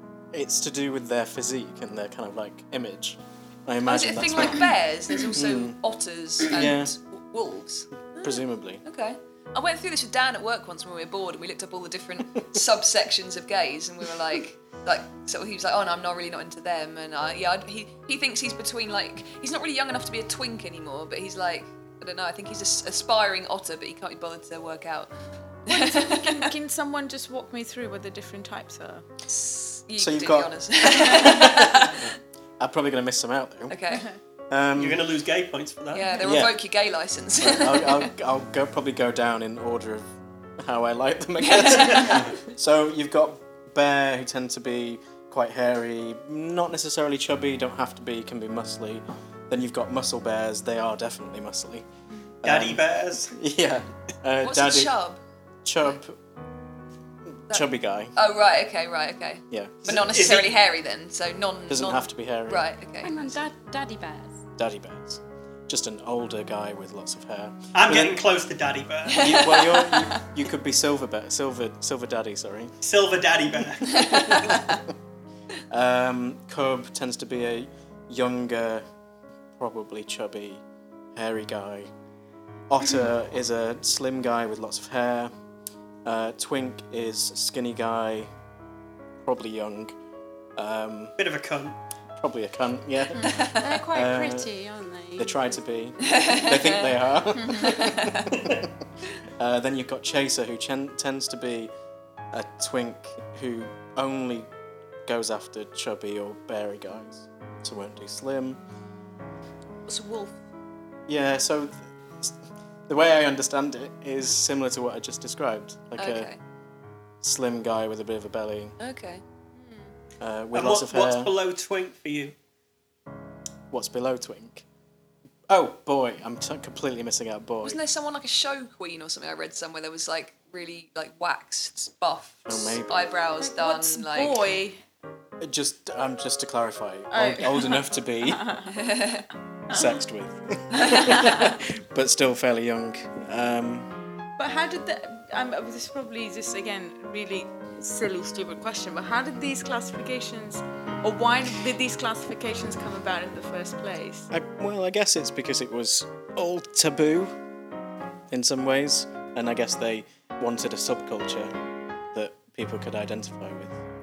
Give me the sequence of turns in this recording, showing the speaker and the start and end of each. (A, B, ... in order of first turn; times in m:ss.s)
0:00.3-0:05.8 A
0:03.8-0:25.1 B
0:06.4-0:06.9 A
0:08.2-0:08.8 A
0:25.6-0:26.4 B
0:25.7-0:29.0 C
0:29.3-0:32.0 B
0:30.0-0:33.8 A
0:33.7-0:34.1 B
0:34.5-0:35.1 A
0:34.8-0:36.1 D
0:35.9-0:38.1 B
0:36.2-0:36.6 A
0:37.4-0:51.8 A
0:41.4-0:42.2 B
0:52.4-0:54.9 A
0:52.4-0:53.3 D
0:54.4-0:55.2 B
0:55.6-0:56.2 A
0:57.5-0:58.1 A
0:57.5-1:03.3 B
0:59.5-0:59.9 A
0:59.8-1:00.5 D
1:01.7-1:02.7 A
1:03.0-1:04.4 E
1:04.6-1:08.2 A
1:07.7-1:09.6 D
1:09.1-1:10.2 B
1:09.2-1:12.7 A
1:12.8-1:14.3 D
1:13.9-1:14.6 B
1:14.1-1:14.9 A
1:15.7-1:18.8 A
1:19.6-1:20.6 A
1:21.1-1:21.9 A
1:22.7-1:25.3 A
1:26.0-1:28.3 A
1:29.2-1:30.0 A
1:30.6-1:31.2 A
1:31.2-1:31.8 D
1:32.2-1:34.5 A
1:33.2-1:33.6 B
1:33.6-1:35.5 E
1:35.2-1:38.7 A
1:36.1-1:37.0 B
1:37.6-1:38.4 B
1:39.4-1:41.7 A
1:42.3-1:44.5 A
1:45.0-1:48.6 A
1:49.9-1:50.3 B
1:51.1-1:52.4 A
1:52.9-1:56.3 A
1:56.0-1:56.4 B
1:57.2-1:58.8 A
1:58.8-1:59.2 B
2:00.2-2:01.3 A
2:00.5-2:02.3 D
2:03.7-2:04.6 A
2:05.5-2:07.8 A
2:07.6-2:14.5 B
2:12.5-2:13.1 A
2:13.4-2:14.8 C
2:15.4-2:18.5 A
2:17.1-2:18.7 C
2:18.8-2:19.2 B
2:19.7-2:23.9 A
2:20.8-2:21.5 B
2:24.4-2:34.3 C
2:34.3-2:37.4 A
2:38.3-2:41.5 A
2:42.1-2:43.8 A